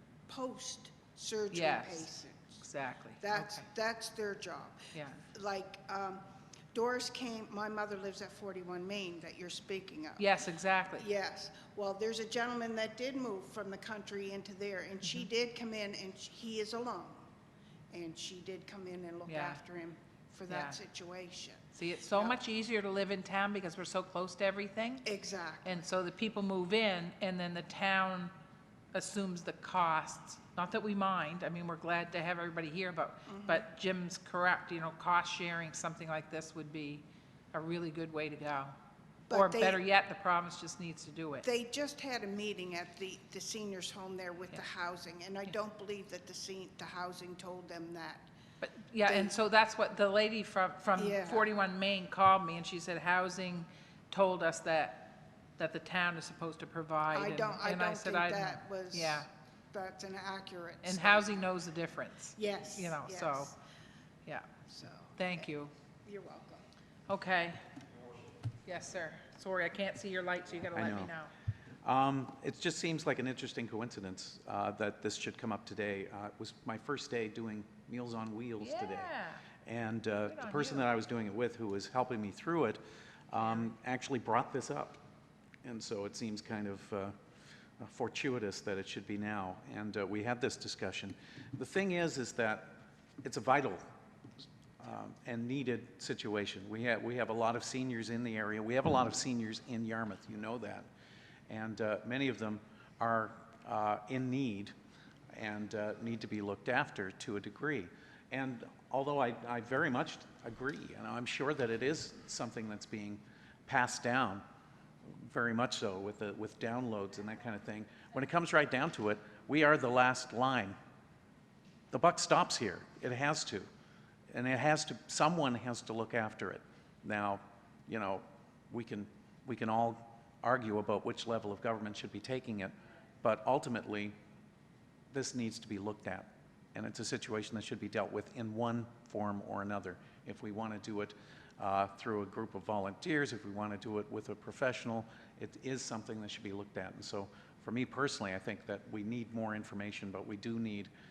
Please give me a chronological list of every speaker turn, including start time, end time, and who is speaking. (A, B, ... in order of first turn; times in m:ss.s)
0:00.3-0:02.6 A
0:01.5-0:02.1 B
0:02.6-0:03.6 B
0:03.2-0:10.4 A
0:04.9-0:05.2 B
0:10.2-0:11.0 B
0:11.0-0:17.3 A
0:17.9-0:22.4 A
0:19.3-0:19.6 B
0:20.5-0:20.8 B
0:21.8-0:25.0 B
0:25.0-0:25.8 A
0:25.6-0:28.3 B
0:28.9-0:38.8 B
0:33.3-0:33.7 A
0:39.3-0:39.8 A
0:39.3-0:41.4 B
0:41.4-0:48.3 A
0:48.6-0:59.3 B
0:49.1-0:49.3 A
0:51.0-0:51.5 A
0:57.1-1:01.5 A
1:00.8-1:03.6 B
1:02.4-1:03.5 A
1:04.7-1:05.5 A
1:05.2-1:05.7 B
1:06.0-1:06.6 A
1:07.1-1:07.6 B
1:08.7-1:11.3 B
1:10.7-1:11.1 C
1:11.8-1:19.1 C
1:18.6-1:19.4 B
1:19.6-1:25.0 C
1:20.3-1:20.9 B
1:23.4-1:23.7 B
1:25.6-1:27.1 C
1:27.8-1:33.8 C
1:34.8-1:40.9 C
1:41.5-1:44.7 C
1:45.3-1:54.4 C
1:55.2-2:00.7 C
2:01.9-2:03.7 C
2:04.3-2:14.1 C
2:15.1-2:30.9 C